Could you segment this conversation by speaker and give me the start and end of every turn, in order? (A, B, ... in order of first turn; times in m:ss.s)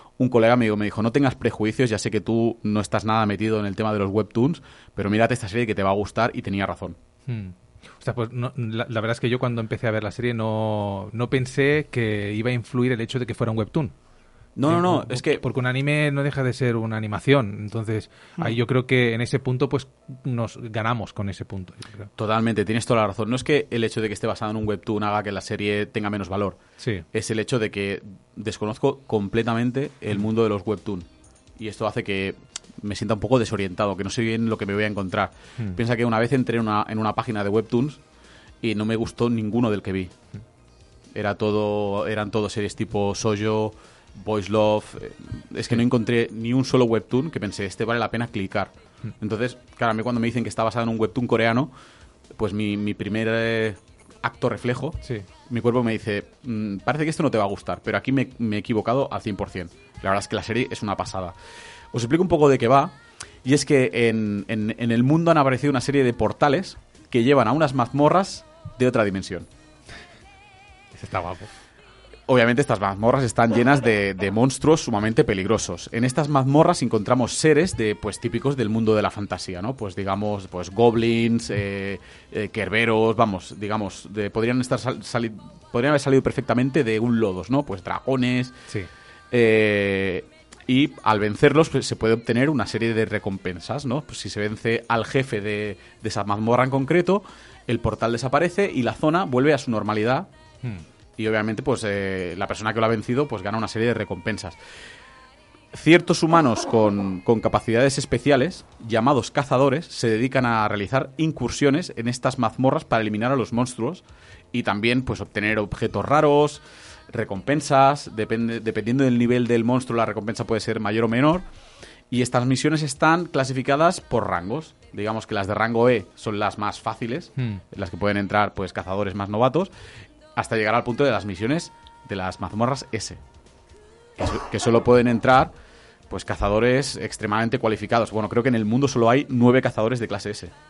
0:00.2-0:07.0 A
0:07.3-0:13.9 B
0:14.6-0:15.4 A
0:14.7-0:22.1 B
0:22.2-0:26.6 A
0:26.8-0:27.0 B
0:27.1-0:38.0 A
0:38.6-0:40.1 A
0:41.1-0:51.7 A
0:52.4-1:01.4 A
1:01.9-1:09.5 A
1:10.9-1:11.5 B
1:12.3-1:28.6 A
1:29.3-1:40.3 A
1:41.2-1:44.6 A
1:45.7-2:01.5 A
2:02.1-2:09.7 A
2:10.4-2:13.2 A
2:14.2-2:15.5 A
2:16.1-2:20.5 A